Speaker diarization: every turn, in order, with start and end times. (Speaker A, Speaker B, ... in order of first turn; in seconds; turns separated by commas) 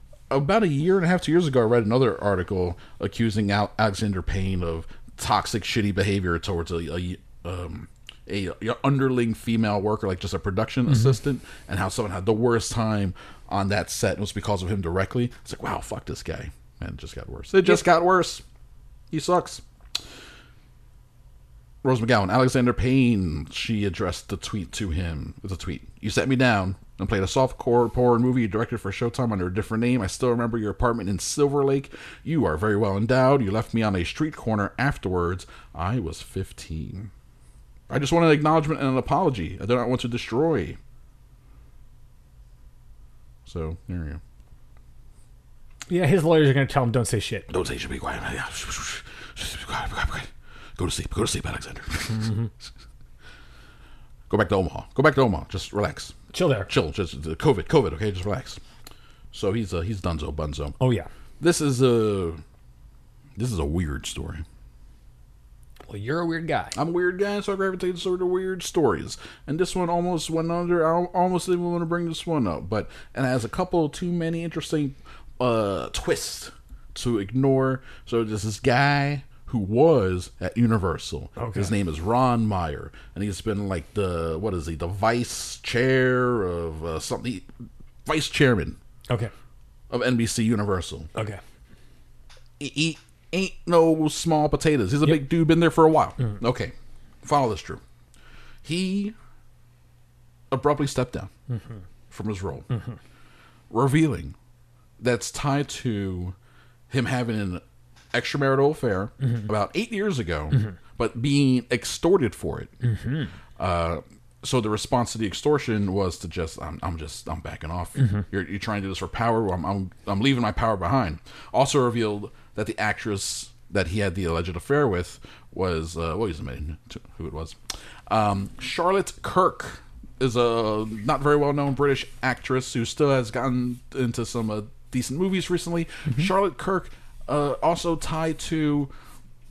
Speaker A: 0.3-18.4, Speaker B: 10.9-11.2, Speaker A: 19.1-19.6, Speaker A: 21.8-37.1, Speaker A: 37.9-40.8, Speaker A: 43.5-44.2, Speaker B: 45.9-47.5, Speaker A: 47.5-52.3, Speaker B: 52.1-52.5, Speaker A: 54.3-58.6, Speaker B: 56.3-56.7, Speaker A: 59.3-60.8, Speaker B: 60.8-61.1, Speaker A: 61.4-62.4, Speaker A: 63.4-64.4, Speaker B: 65.9-66.8, Speaker A: 66.8-87.5, Speaker B: 81.4-81.7, Speaker A: 88.1-88.8, Speaker A: 89.9-91.1, Speaker B: 91.2-91.4, Speaker A: 92.6-97.8, Speaker A: 98.6-99.2, Speaker A: 100.5-101.3, Speaker B: 101.5-101.8, Speaker A: 102.1-102.7, Speaker A: 103.7-104.3, Speaker A: 105.0-106.3, Speaker A: 106.9-112.7, Speaker B: 109.2-109.5, Speaker B: 112.8-113.3, Speaker A: 113.6-138.9, Speaker B: 118.0-118.2